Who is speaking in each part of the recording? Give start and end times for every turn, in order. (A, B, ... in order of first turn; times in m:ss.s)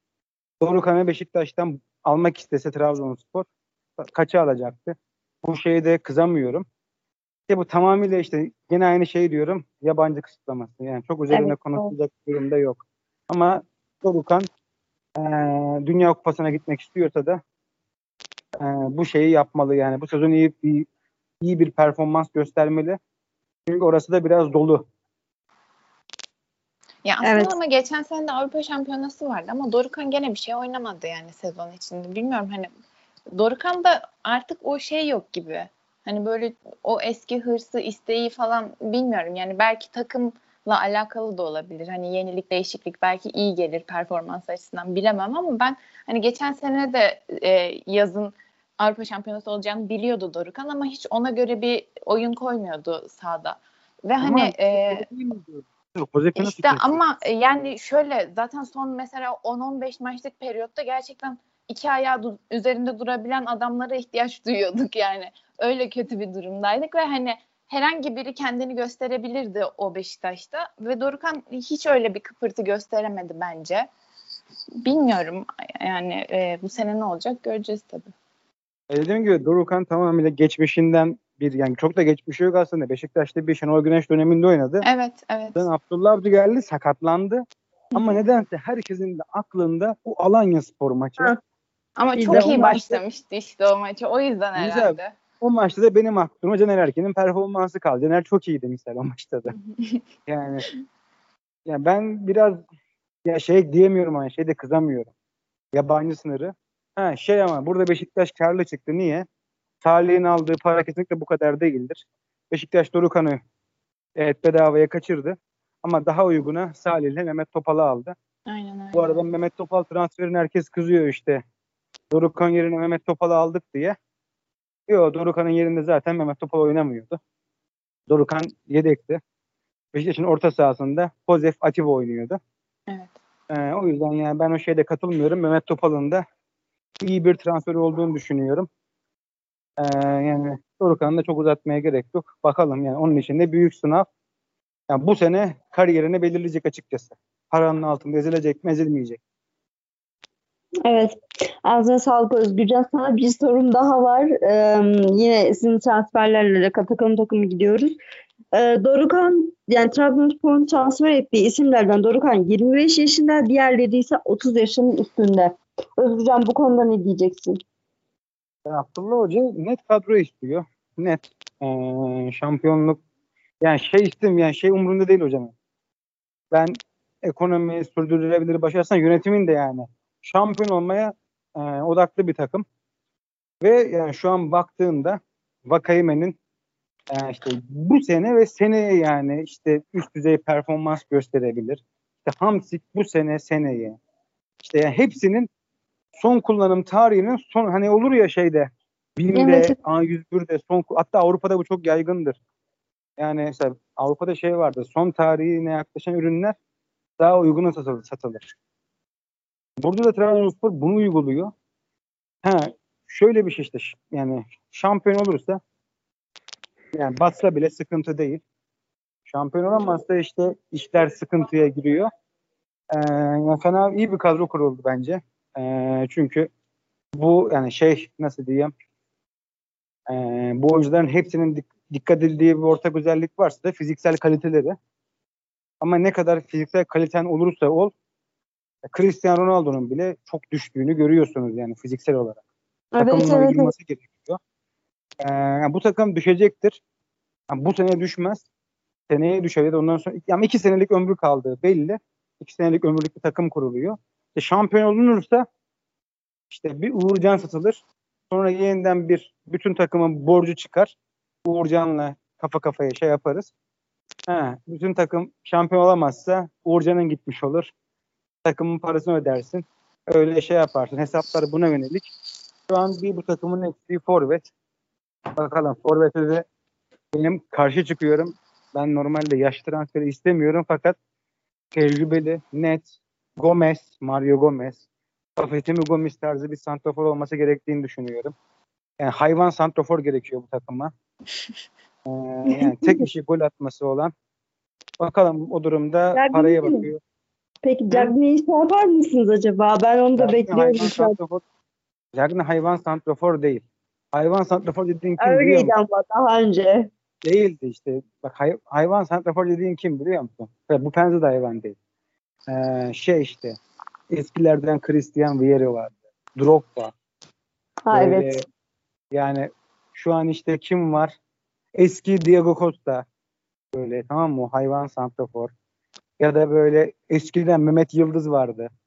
0:00.6-0:03.5 A
0:04.0-0:06.6 A
0:07.5-0:14.5 A
0:11.3-0:12.0 B
0:15.2-0:17.4 A
0:18.6-0:20.9 A
0:21.4-0:23.0 A
0:23.7-0:24.8 A
0:27.0-0:32.7 C
0:27.2-0:27.6 B
0:33.3-0:55.1 C
0:54.2-0:57.0 A
0:56.4-1:13.9 C
1:14.8-1:18.1 C
1:18.9-1:24.9 A
1:24.8-1:25.6 C
1:25.6-1:27.4 A
1:28.0-1:31.3 A
1:32.0-1:35.1 C
1:32.2-1:33.0 B
1:32.3-1:32.8 A
1:34.6-1:39.6 A
1:39.7-1:40.0 C
1:40.3-1:40.7 A
1:41.7-1:42.6 A
1:43.3-1:45.1 A
1:45.7-1:49.3 A
1:49.8-1:53.4 A
1:54.2-1:58.1 A
1:58.5-1:59.2 C
1:58.9-2:01.4 A
2:02.1-2:04.0 A
2:04.9-2:07.2 A
2:08.1-2:09.2 A
2:09.9-2:12.4 A
2:12.9-2:13.1 C
2:13.5-2:16.2 A
2:17.0-2:18.7 A
2:19.8-2:24.1 A
2:24.9-2:29.2 A
2:30.8-2:37.9 B
2:38.5-2:47.6 B
2:48.6-2:53.0 A
2:53.6-2:55.5 A
2:56.5-3:02.6 A
3:03.6-3:06.4 A
3:07.1-3:14.0 A
3:14.6-3:15.5 A
3:16.2-3:22.4 A
3:19.3-3:19.8 B
3:23.2-3:26.6 A
3:27.2-3:28.5 A
3:29.8-3:31.5 A
3:32.4-3:35.6 A
3:36.9-3:38.4 A
3:39.3-3:42.1 A
3:42.9-3:46.5 A
3:47.1-3:48.7 A
3:50.1-3:54.8 A
3:55.8-3:57.9 A
3:58.9-4:02.4 A
4:03.0-4:03.7 B
4:03.0-4:04.4 A
4:05.2-4:06.8 A
4:07.5-4:08.4 A
4:09.1-4:15.4 A
4:16.5-4:23.5 A
4:24.3-4:27.7 A
4:28.4-4:32.1 A
4:32.7-4:34.5 A
4:35.4-4:36.4 A
4:37.1-4:41.0 A
4:41.7-4:44.8 A
4:45.4-4:48.3 A
4:49.0-4:50.9 A
4:52.1-4:54.1 A
4:52.5-4:53.1 B
4:55.0-4:57.0 A
4:56.1-4:56.9 B
4:57.6-5:01.2 B
5:00.2-5:01.4 A
5:02.1-5:05.7 A
5:05.2-5:06.9 B
5:07.2-5:11.8 A
5:12.5-5:13.6 A
5:14.1-5:16.9 A
5:17.8-5:18.4 B
5:17.9-5:18.4 A
5:19.1-5:21.1 A
5:21.8-5:23.0 A
5:23.7-5:25.5 A
5:26.2-5:28.7 A